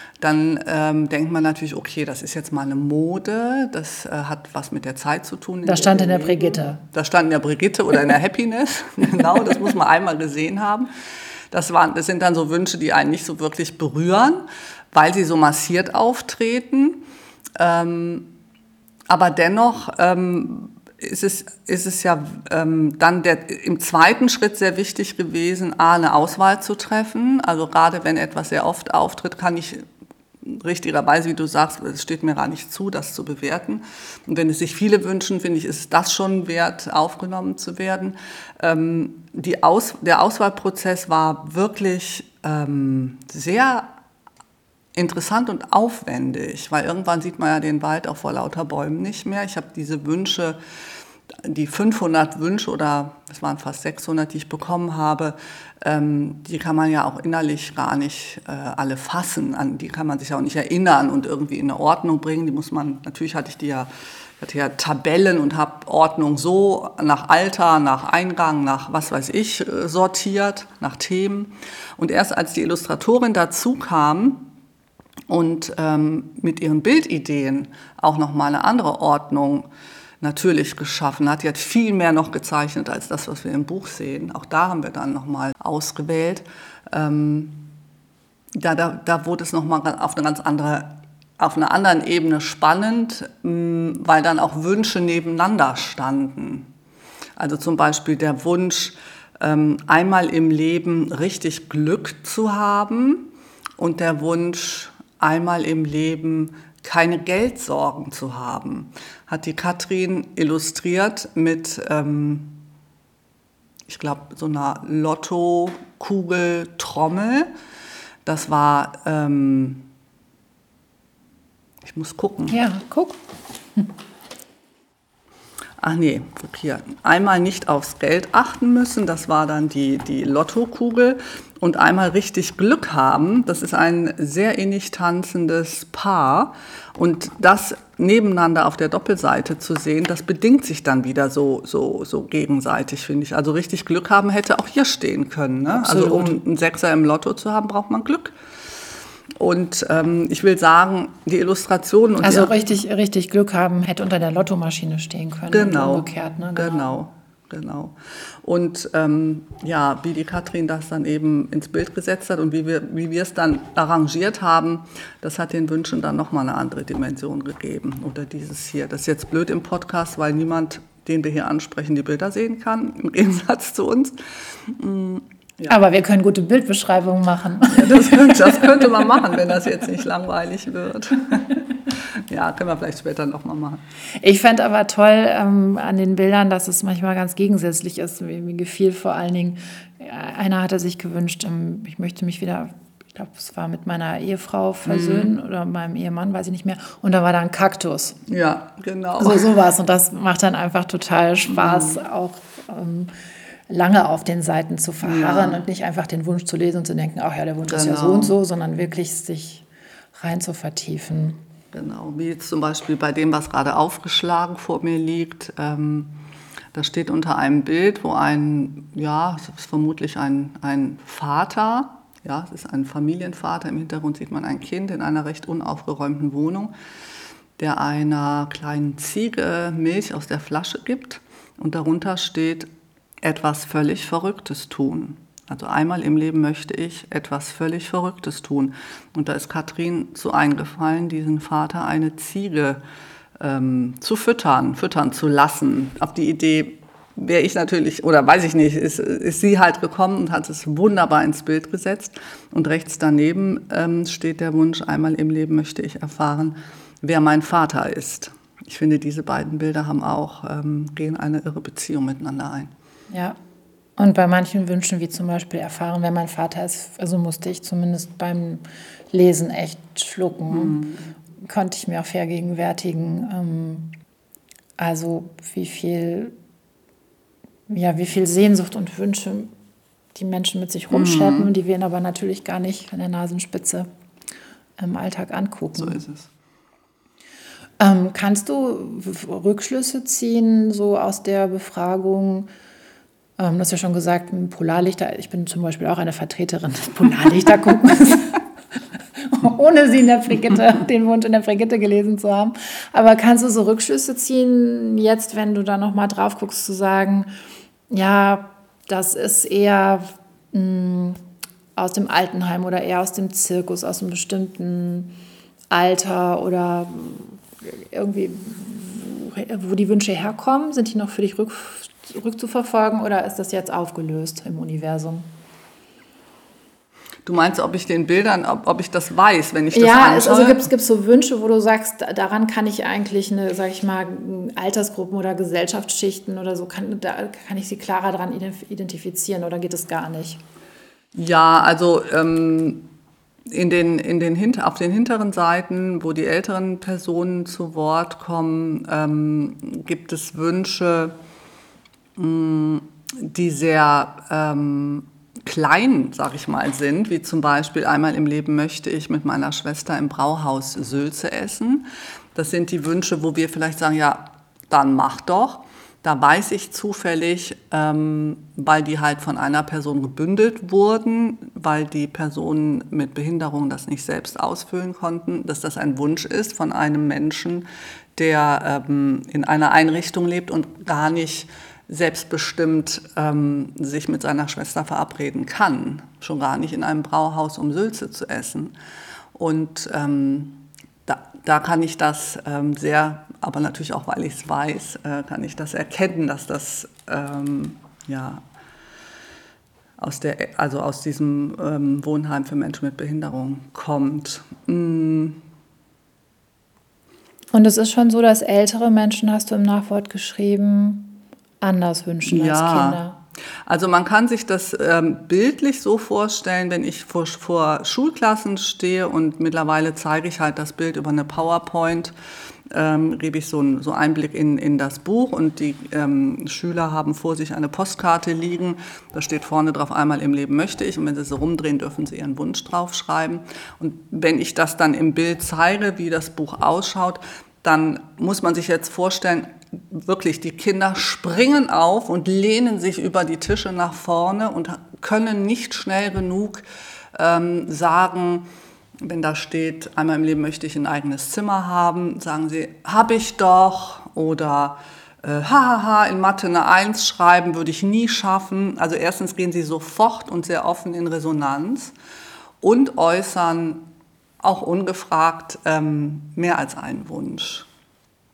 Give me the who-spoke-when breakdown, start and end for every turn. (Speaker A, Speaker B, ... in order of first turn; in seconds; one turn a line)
Speaker A: 0.2-10.9
Speaker B: 5.7-6.8
Speaker A: 11.5-17.1
Speaker A: 17.6-18.3
Speaker A: 19.1-29.9
Speaker A: 30.4-43.9
Speaker A: 45.0-50.6
Speaker A: 51.4-74.5
Speaker A: 75.3-79.7
Speaker A: 80.2-87.7
Speaker A: 88.6-96.7
Speaker A: 97.4-112.7
Speaker A: 113.9-117.5
Speaker A: 118.2-119.9
Speaker A: 121.8-122.6
Speaker B: 122.5-123.2
Speaker A: 125.8-148.3
Speaker B: 145.7-146.4
Speaker A: 149.4-152.6
Speaker B: 152.2-156.9
Speaker A: 155.5-174.2
Speaker A: 174.7-175.8
Speaker B: 175.7-179.1
Speaker A: 177.7-183.8
Speaker B: 184.2-198.2
Speaker A: 194.9-195.3
Speaker A: 198.3-199.5
Speaker B: 199.2-203.1
Speaker A: 201.5-202.0
Speaker B: 203.7-211.4
Speaker A: 205.0-205.6
Speaker A: 207.7-208.4
Speaker A: 211.7-216.2
Speaker A: 216.7-226.7
Speaker A: 227.6-232.7
Speaker A: 233.2-242.8
Speaker A: 243.4-262.7
Speaker B: 263.1-263.4
Speaker B: 264.0-270.8
Speaker A: 270.5-271.1
Speaker B: 271.4-273.9
Speaker B: 274.8-276.3
Speaker B: 277.7-279.5
Speaker B: 280.1-283.9
Speaker A: 280.9-281.5
Speaker B: 284.8-286.0
Speaker A: 285.8-286.3
Speaker B: 287.8-292.5
Speaker B: 293.4-298.4
Speaker B: 299.2-307.3
Speaker B: 307.9-311.2
Speaker B: 311.8-315.1
Speaker B: 315.7-325.3
Speaker A: 327.2-330.7
Speaker B: 329.7-340.4
Speaker A: 341.1-342.9
Speaker A: 343.5-351.2
Speaker A: 352.2-388.7
Speaker A: 389.4-398.4
Speaker A: 400.0-405.4
Speaker B: 407.5-413.2
Speaker A: 412.3-413.0
Speaker A: 413.7-422.1
Speaker A: 422.7-448.5
Speaker A: 449.0-461.9
Speaker A: 462.6-463.9
Speaker A: 464.4-467.7